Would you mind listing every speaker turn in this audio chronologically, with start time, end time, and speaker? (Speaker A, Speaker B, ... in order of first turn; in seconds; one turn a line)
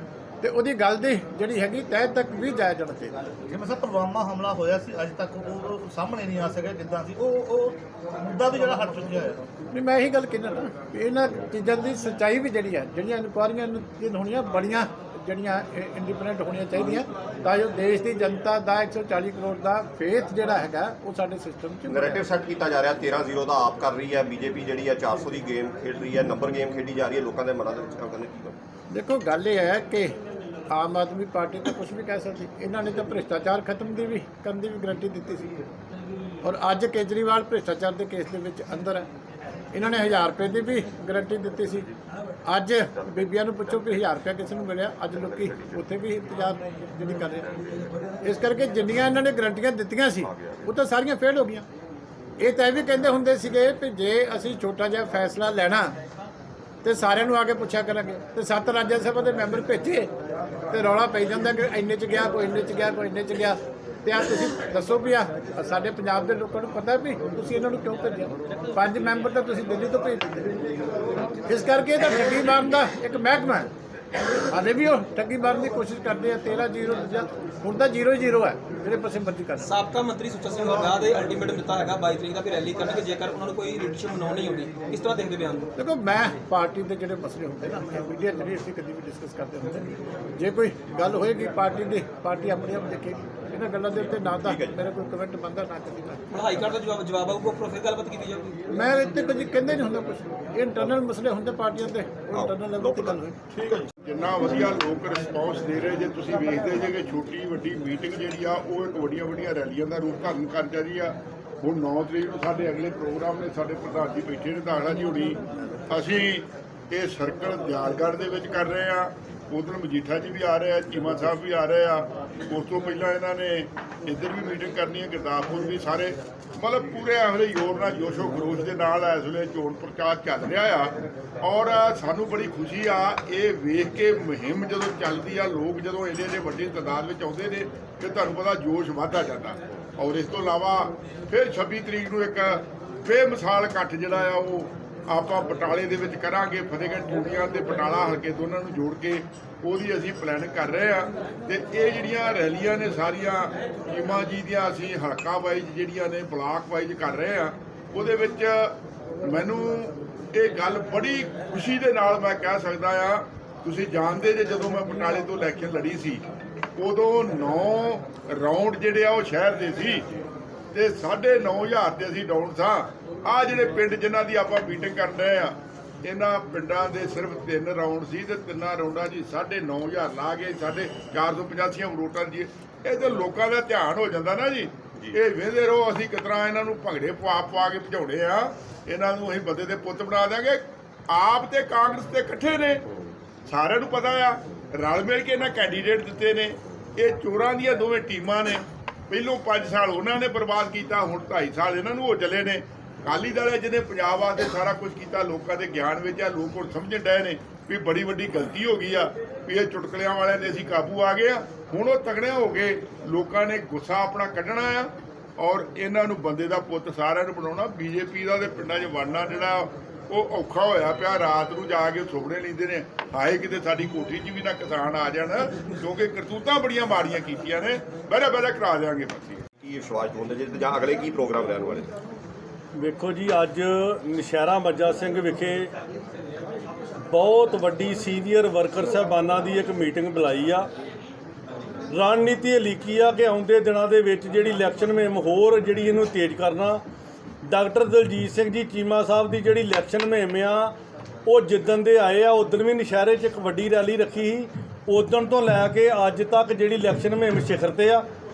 Speaker A: 0.4-3.1
Speaker B: 3.5-9.4
Speaker A: 9.7-22.2
Speaker C: 21.9-28.6
Speaker A: 28.9-30.1
Speaker A: 30.7-35.5
Speaker A: 36.4-39.0
Speaker A: 39.7-41.9
Speaker A: 42.5-47.5
Speaker A: 48.2-51.6
Speaker A: 52.4-55.9
Speaker A: 56.8-60.1
Speaker A: 60.7-70.7
Speaker A: 71.5-73.7
Speaker A: 74.5-79.7
Speaker D: 79.6-85.7
Speaker A: 85.8-96.2
Speaker C: 94.5-94.8
Speaker D: 96.3-98.5
Speaker A: 98.7-103.4
Speaker C: 102.3-103.2
Speaker B: 103.5-103.9
Speaker E: 104.0-166.2
Speaker E: 166.8-170.0
Speaker E: 170.7-192.8
Speaker E: 193.5-229.5
Speaker C: 229.6-231.9
Speaker F: 232.8-235.7
Speaker F: 237.1-240.7
Speaker F: 241.9-246.8
Speaker F: 247.5-250.7
Speaker F: 251.2-258.0